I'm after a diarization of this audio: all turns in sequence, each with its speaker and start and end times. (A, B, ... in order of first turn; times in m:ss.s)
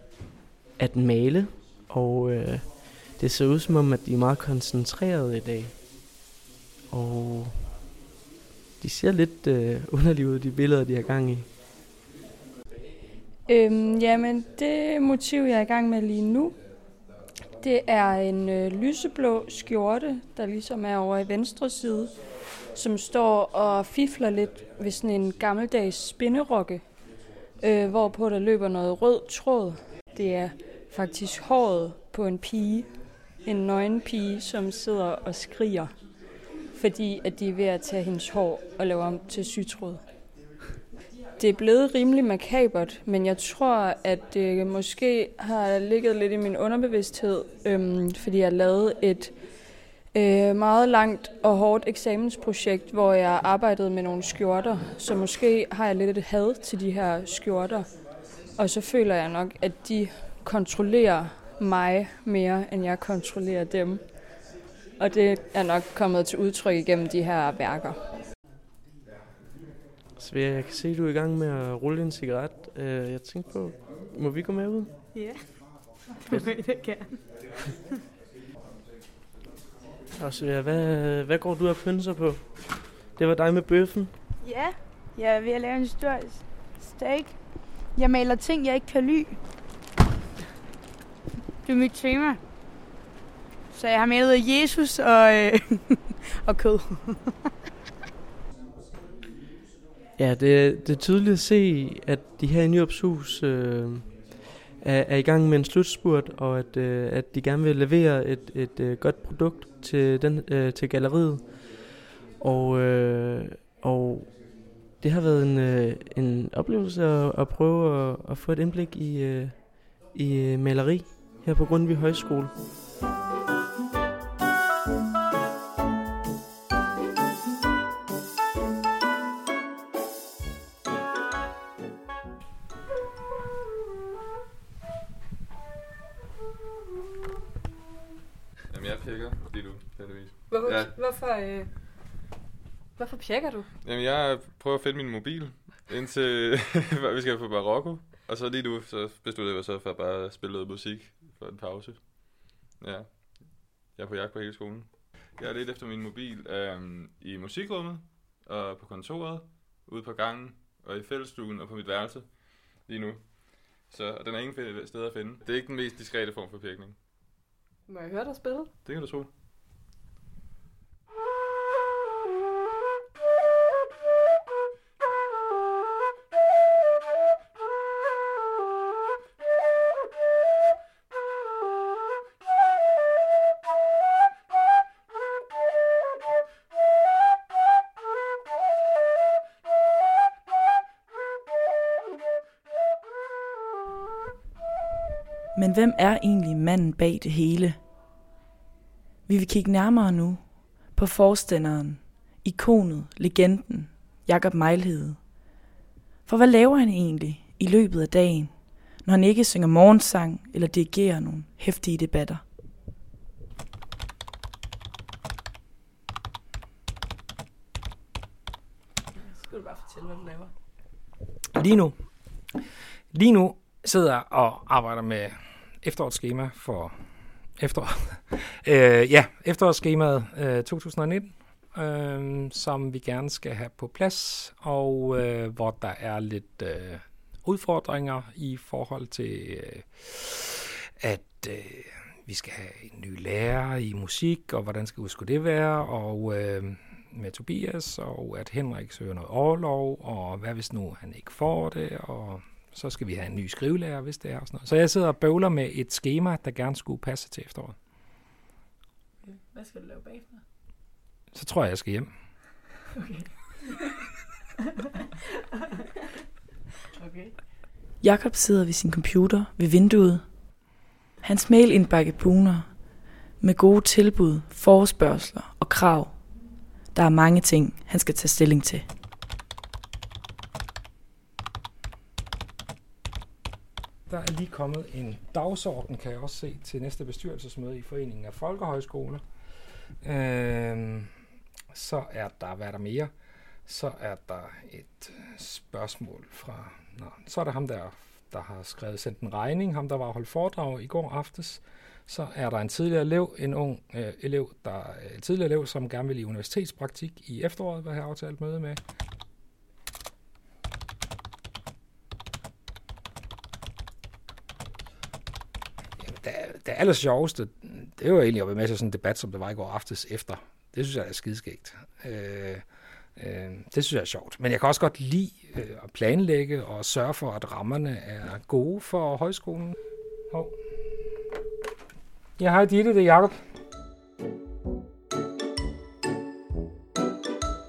0:00.8-0:05.7 A
0:06.9-0:07.6 A
0:08.8-0:11.5 A
0:13.5-0:16.6 B
0:17.6-0:22.1 B
0:22.7-0:27.0 B
0:27.6-0:35.9 B
0:36.7-0:40.0 B
0:41.4-0:49.4 B
0:50.1-0:57.9 B
0:58.6-1:04.2 B
1:05.0-1:08.1 B
1:10.2-1:14.9 A
1:15.2-1:15.4 C
1:16.3-1:17.0 C
1:20.2-1:24.1 A
1:24.4-1:27.3 C
1:27.9-1:29.3 C
1:31.7-1:32.4 C
1:33.8-1:35.8 C
1:36.4-1:37.2 C
1:40.2-1:51.6 A
1:52.4-1:54.4 A
1:55.0-2:02.5 A
2:18.7-2:21.0 D
2:20.5-2:21.7 E
2:23.0-2:23.7 E
2:23.8-2:47.2 D
2:47.9-2:48.6 E
2:48.8-2:49.3 D
3:15.6-3:17.8 F
3:19.3-3:25.5 F
3:26.3-3:32.4 F
3:39.9-3:40.2 E
3:41.6-3:42.5 G
3:43.1-4:00.4 G
4:01.0-4:17.8 G
4:19.6-4:20.2 E
4:21.3-4:22.1 G
4:28.0-4:38.9 F
4:44.1-4:51.1 G
4:51.7-4:53.1 G
4:53.6-5:08.8 G
5:16.0-5:29.8 G
5:30.3-5:30.6 G
5:32.4-5:33.4 G